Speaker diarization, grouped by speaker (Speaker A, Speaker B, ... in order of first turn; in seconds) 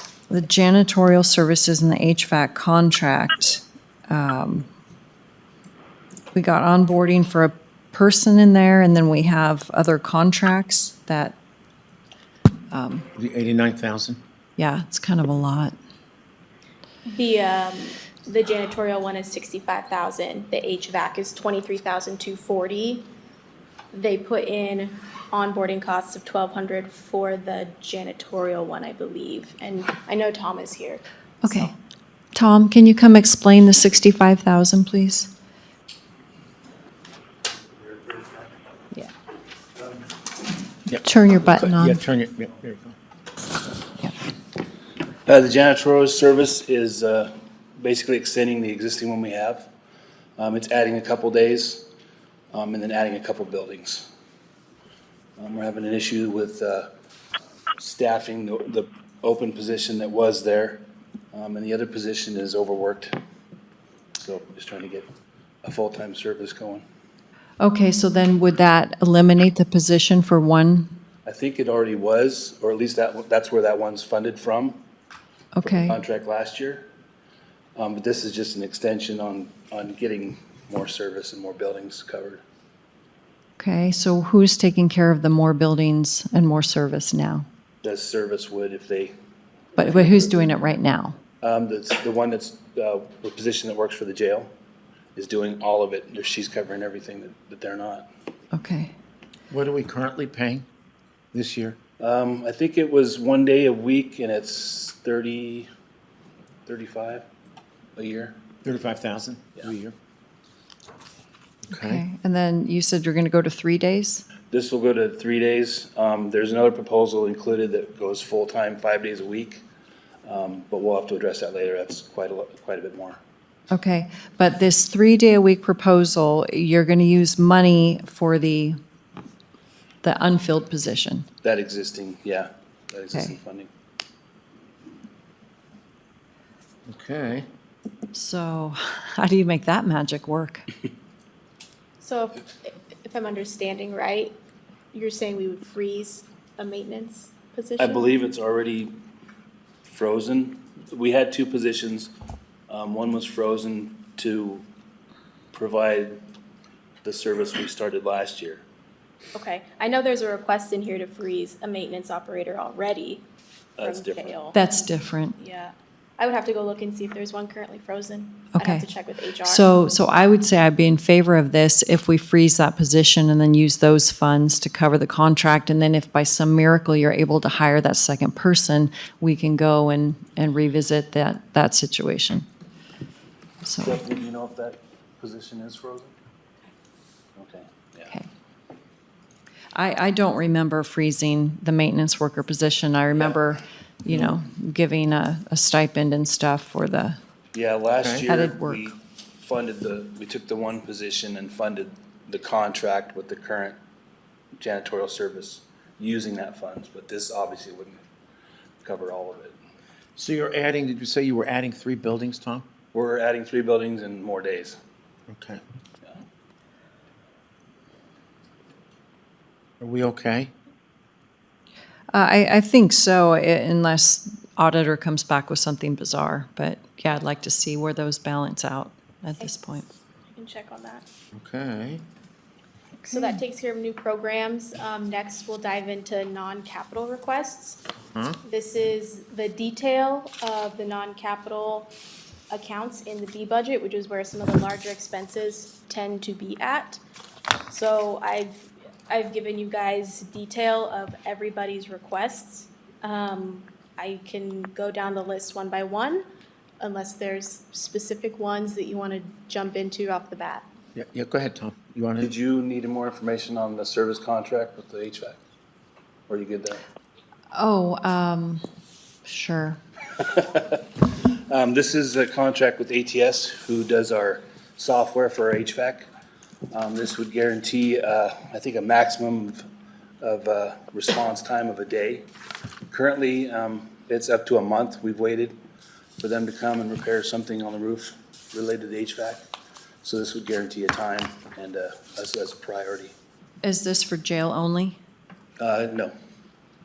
Speaker A: 0.3-4.7, 6.3-11.4, 12.7-13.1, 14.6-15.8, 31.4-31.7, 32.3-35.3, 41.0-42.0, 67.6-70.9, 75.6-76.0, 83.6-87.5, 89.8-91.2, 98.5-98.9, 111.7-114.2, 123.7-128.8, 130.0-131.3, 138.1-140.7, 164.5-165.4, 168.5-168.9, 169.4-182.5, 183.6-184.0, 189.7-197.2, 198.3-198.9, 222.1-229.9, 233.0-233.4, 267.5-268.6, 269.2-269.8, 293.6-295.0
Speaker B: 13.2-14.2, 40.9-43.0, 99.5-100.7, 101.3-101.8, 108.6-110.0, 111.7-112.0, 136.9-137.5, 198.0-198.3, 210.2-212.7, 215.3-215.6, 219.8-220.5, 231.3-232.0, 238.2-238.4, 260.9-262.3
Speaker C: 17.1-23.1, 23.9-31.7, 142.0-144.4, 144.9-148.2, 159.3-163.2, 163.8-164.6, 165.4-169.7, 230.4-231.1, 233.1-237.8, 238.4-242.0, 242.5-247.0, 247.7-256.3, 256.8-260.6
Speaker D: 45.3-49.7, 50.4-51.9, 52.5-54.1, 55.4-56.9, 57.8-63.2, 64.2-65.1, 65.6-66.8, 71.2-74.8, 75.6-76.9, 77.8-82.4, 87.8-89.2, 89.7-90.4, 91.4-94.5, 95.2-98.1, 102.0-105.7, 106.7-107.3, 108.0-108.4, 114.5-119.6, 120.2-123.2, 131.4-133.7, 147.8-148.9, 149.9-152.1, 152.7-154.7, 155.5-156.2, 157.0-158.6, 163.8-164.4, 183.8-186.1, 187.4-188.1, 193.1-193.4, 197.5-203.8, 204.6-208.0, 208.8-209.6, 212.9-214.8, 262.2-265.4, 266.3-266.8, 270.3-276.1, 276.7-279.6, 280.2-282.3, 282.9-285.6, 286.2-289.5, 290.0-293.1, 295.6-296.1